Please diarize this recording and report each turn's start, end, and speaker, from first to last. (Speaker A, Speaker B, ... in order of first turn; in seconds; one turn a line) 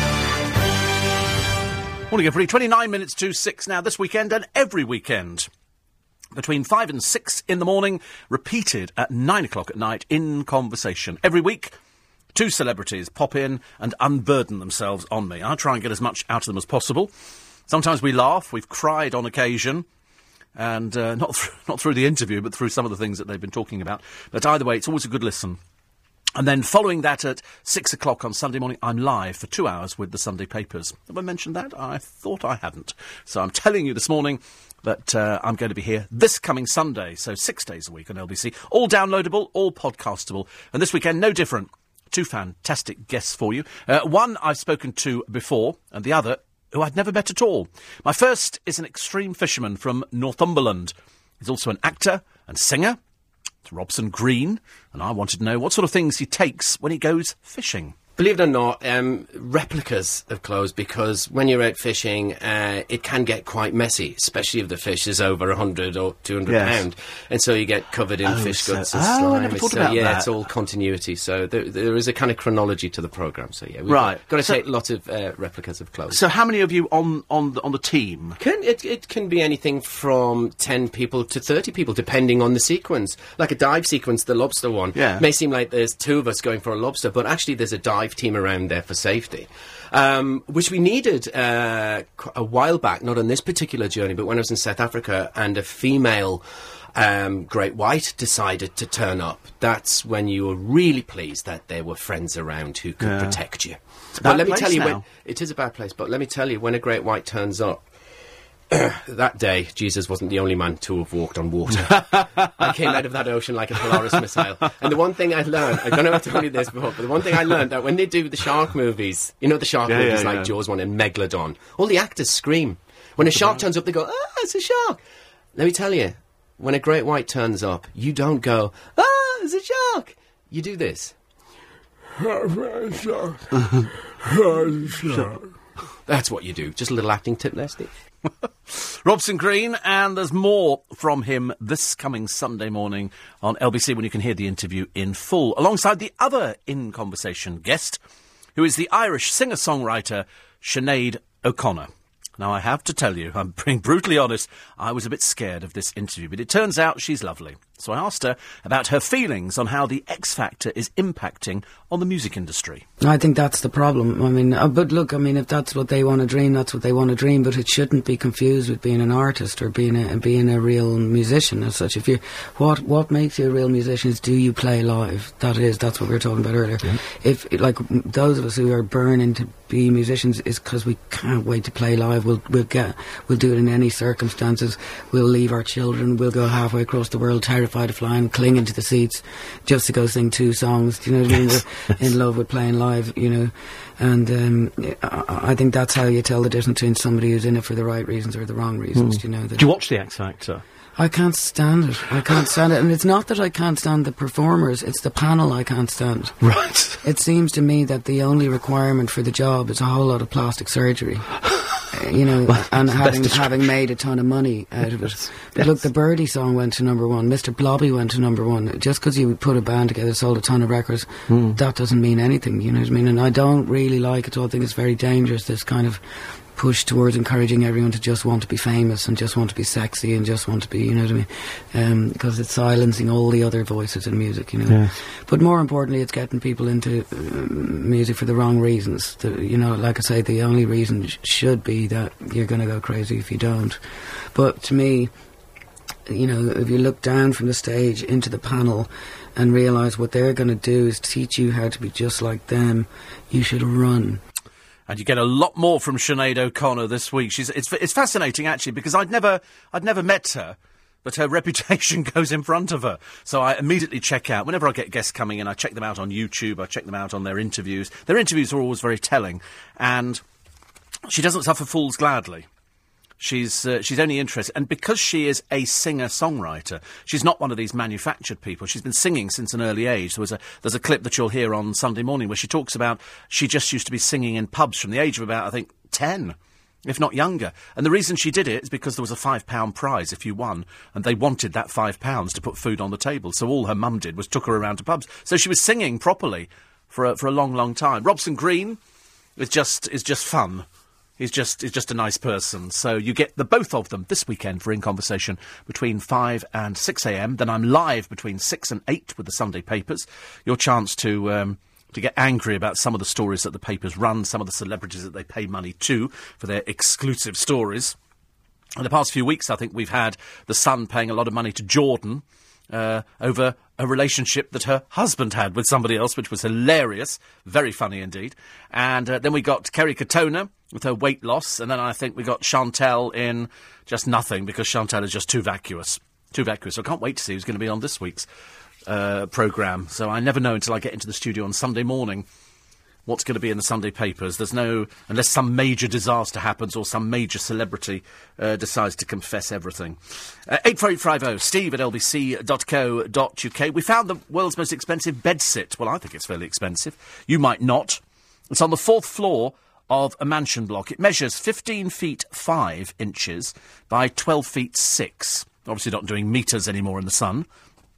Speaker A: 2.1-5.5
Speaker A: 6.3-11.7
Speaker A: 12.3-17.1
Speaker A: 17.7-19.9
Speaker A: 20.6-25.6
Speaker A: 26.3-53.0
Speaker A: 53.6-58.0
Speaker B: 58.2-76.2
Speaker A: 66.5-66.8
Speaker A: 68.3-70.3
Speaker A: 73.9-74.6
Speaker A: 76.1-78.4
Speaker B: 78.4-96.4
Speaker A: 84.9-85.2
Speaker B: 96.9-107.8
Speaker A: 103.0-103.4
Speaker A: 104.2-105.0
Speaker B: 108.7-125.0
Speaker A: 112.4-112.7
Speaker A: 119.9-120.5
Speaker B: 125.5-131.1
Speaker B: 132.2-133.4
Speaker B: 134.3-135.0
Speaker B: 136.1-137.9
Speaker A: 138.7-148.0
Speaker A: 148.6-162.8
Speaker C: 163.0-199.7
Speaker A: 198.9-200.6
Speaker C: 201.0-206.4
Speaker A: 206.4-207.0
Speaker C: 207.0-245.1
Speaker A: 212.5-213.6
Speaker A: 221.3-221.6
Speaker A: 234.7-234.9
Speaker C: 246.1-254.2
Speaker A: 254.9-270.2
Speaker A: 271.1-272.5
Speaker A: 273.2-298.8
Speaker A: 299.4-300.6
Speaker A: 301.2-317.9
Speaker A: 318.8-338.3
Speaker A: 338.9-342.2
Speaker A: 343.1-367.4